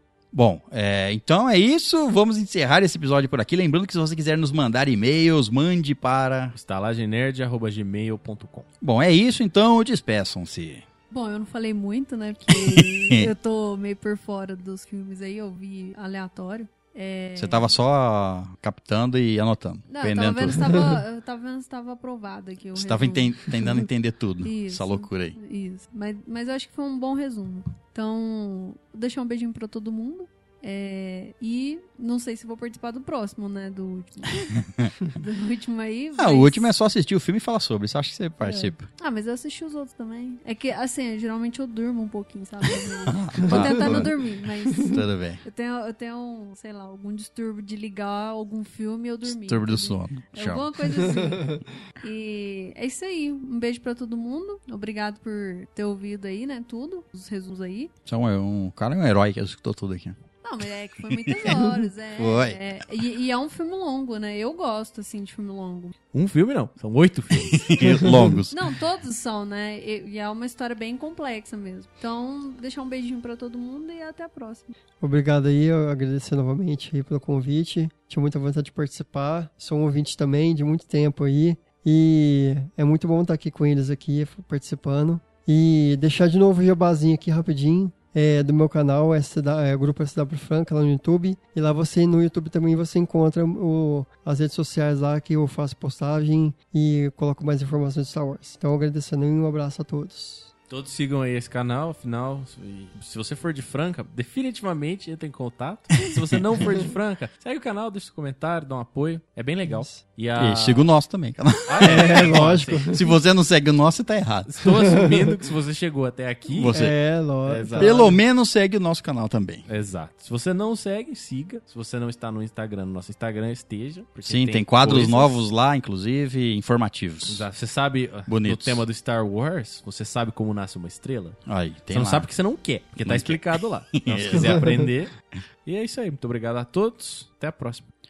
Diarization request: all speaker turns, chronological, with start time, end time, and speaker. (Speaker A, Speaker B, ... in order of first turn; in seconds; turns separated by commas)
Speaker A: 0.3-6.5, Speaker B: 6.5-8.7, Speaker A: 8.8-10.8, Speaker C: 11.1-17.7, Speaker A: 12.5-13.3, Speaker A: 17.4-21.0, Speaker C: 19.9-23.9, Speaker A: 22.7-25.4, Speaker C: 24.4-36.7, Speaker A: 34.5-34.9, Speaker A: 36.1-38.9, Speaker C: 38.4-57.9, Speaker A: 43.0-45.4, Speaker D: 43.6-44.0, Speaker A: 49.2-51.0, Speaker A: 58.0-63.0, Speaker C: 60.4-65.9, Speaker B: 66.1-68.3, Speaker A: 67.3-68.7, Speaker D: 68.0-68.3, Speaker C: 68.5-74.8, Speaker D: 75.0-100.5, Speaker B: 100.7-110.9, Speaker A: 106.0-106.4, Speaker D: 109.6-110.0, Speaker A: 110.3-114.5, Speaker B: 111.7-113.1, Speaker D: 111.8-113.0, Speaker B: 114.5-116.8, Speaker D: 114.6-115.4, Speaker A: 116.5-117.0, Speaker D: 116.7-118.2, Speaker B: 117.4-118.0, Speaker A: 117.8-119.6, Speaker B: 119.7-125.4, Speaker A: 124.2-127.5, Speaker B: 127.2-131.4, Speaker A: 128.3-128.8, Speaker A: 131.4-132.3, Speaker B: 131.9-135.1, Speaker A: 133.0-134.7, Speaker D: 134.4-134.8, Speaker B: 135.7-137.8